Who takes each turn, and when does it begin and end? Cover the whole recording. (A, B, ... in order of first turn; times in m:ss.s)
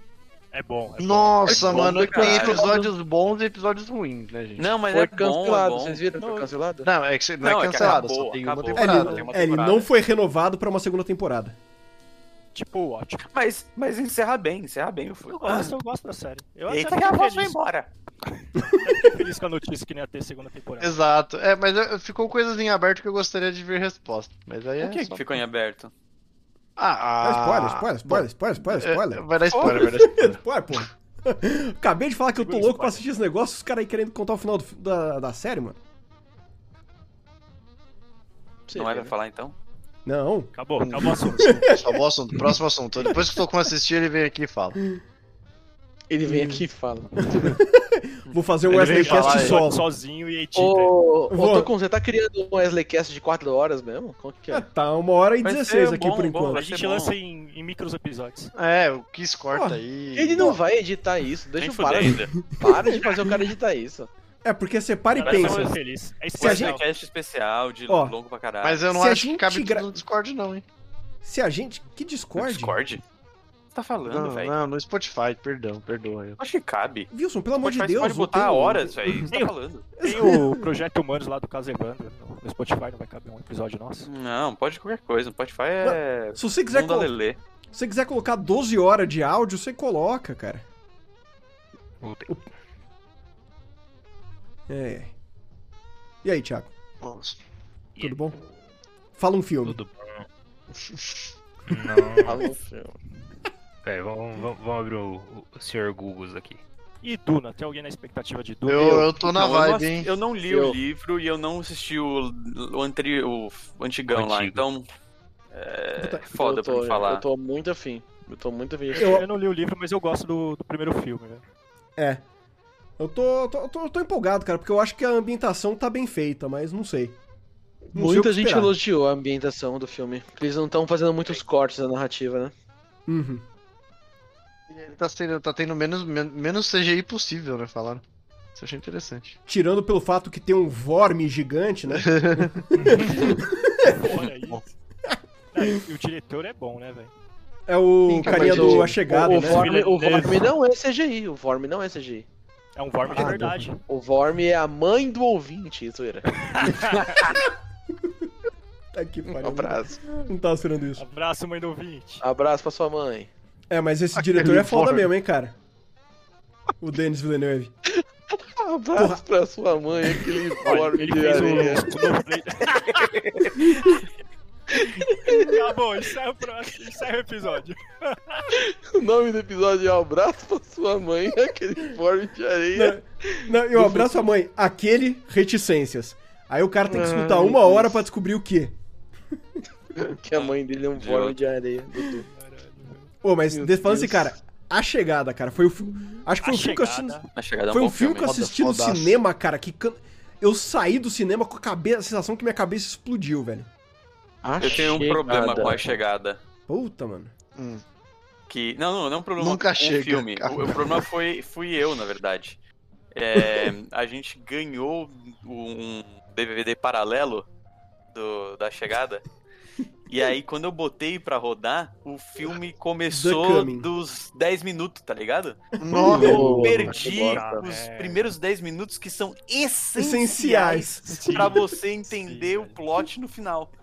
0:00.5-0:02.0 A
0:01.0-0:04.7 B
0:01.5-0:02.9 C
0:01.5-0:02.7 D
0:04.6-0:06.0 D
0:04.9-0:06.9 C
0:06.8-0:09.2 B
0:07.4-0:09.9 D
0:08.8-0:11.5 E
0:12.5-0:13.3 A
0:13.3-0:15.8 D
0:15.3-0:17.6 A
0:16.7-0:17.9 D
0:18.8-0:20.9 A
0:20.8-0:25.2 B
0:24.8-0:25.9 D
0:26.8-0:30.4 B
0:27.2-0:35.8 E
0:29.5-0:29.9 D
0:32.3-0:33.1 A
0:38.7-0:39.1 C
0:38.8-0:39.5 D
0:40.0-0:40.5 E
0:40.5-0:41.7 A
0:40.8-0:44.8 B
0:46.1-0:47.1 C
0:46.2-0:46.6 E
0:47.2-0:49.8 E
0:48.7-0:49.6 B
0:48.7-0:50.9 A
0:50.5-0:54.6 C
0:51.3-0:51.7 E
0:54.5-0:56.6 E
0:55.4-0:57.2 D
0:56.5-0:58.5 A
0:58.5-1:00.6 B
0:59.5-0:59.8 E
1:00.1-1:04.1 C
1:01.6-1:02.3 D
1:02.5-1:03.5 E
1:04.4-1:05.7 E
1:05.1-1:06.8 A
1:05.2-1:05.8 D
1:06.4-1:08.8 D
1:06.4-1:06.8 E
1:07.9-1:08.2 E
1:08.6-1:10.6 B
1:08.9-1:09.9 E
1:11.2-1:12.8 E
1:12.4-1:13.0 D
1:13.7-1:14.5 D
1:14.1-1:16.4 B
1:16.4-1:17.1 D
1:17.1-1:19.2 E
1:17.6-1:20.3 D
1:19.3-1:24.1 A
1:20.0-1:20.6 E
1:24.0-1:27.4 D
1:25.8-1:27.1 E
1:27.7-1:30.6 E
1:32.0-1:32.3 F
1:34.7-1:35.1 E
1:36.2-1:36.7 E
1:37.0-1:37.4 B
1:38.0-1:38.4 E
1:39.2-1:39.8 E
1:39.6-1:40.2 F
1:40.7-1:41.3 B
1:41.7-1:42.4 F
1:42.2-1:42.9 C
1:43.8-1:46.6 F
1:47.0-1:49.1 A
1:48.6-1:50.1 B
1:49.2-1:54.8 D
1:50.5-1:50.8 C
1:54.1-1:54.6 F
1:55.5-1:57.2 D
1:56.4-1:59.2 C
1:58.9-2:01.4 A
1:59.0-1:59.2 E
2:02.0-2:02.2 E
2:03.0-2:07.2 E
2:07.9-2:08.7 E
2:07.9-2:12.5 C
2:13.1-2:13.4 E
2:14.7-2:18.0 B
2:18.5-2:19.3 B
2:19.5-2:24.1 E
2:21.9-2:23.3 B
2:22.8-2:24.6 A
2:24.1-2:24.6 B
2:25.5-2:27.1 A
2:27.7-2:29.6 E
2:28.1-2:29.0 B
2:28.2-2:32.2 C
2:29.2-2:30.5 A
2:32.8-2:33.8 A
2:33.1-2:33.6 E
2:33.9-2:37.3 C
2:36.3-2:37.3 A
2:38.9-2:41.0 E
2:39.3-2:40.0 C
2:41.0-2:42.2 A
2:42.2-2:43.3 C
2:43.7-2:45.6 E
2:44.2-2:45.1 B
2:46.8-2:47.7 E
2:47.9-2:51.9 C
2:49.0-2:49.2 E
2:50.6-2:53.1 A
2:54.7-2:55.5 C
2:55.2-2:58.5 A
2:58.5-3:04.0 C
3:02.7-3:08.8 E
3:06.9-3:07.9 C
3:10.0-3:12.3 C
3:10.3-3:11.3 D
3:12.3-3:13.1 A
3:13.2-3:23.7 E
3:13.5-3:14.3 C
3:16.4-3:17.3 A
3:17.3-3:18.3 D
3:18.2-3:19.2 B
3:24.4-3:25.8 C
3:24.6-3:26.4 D
3:26.7-3:27.3 E
3:27.6-3:27.8 B
3:28.5-3:32.6 D
3:29.4-3:31.0 B
3:33.1-3:37.4 D
3:38.1-3:39.2 D
3:40.1-3:53.7 D
3:43.1-3:43.9 E
3:45.8-3:46.9 B
3:45.9-3:46.2 E
3:46.0-3:47.6 C
3:46.9-3:48.3 A
3:49.9-3:51.4 E
3:51.1-3:52.8 A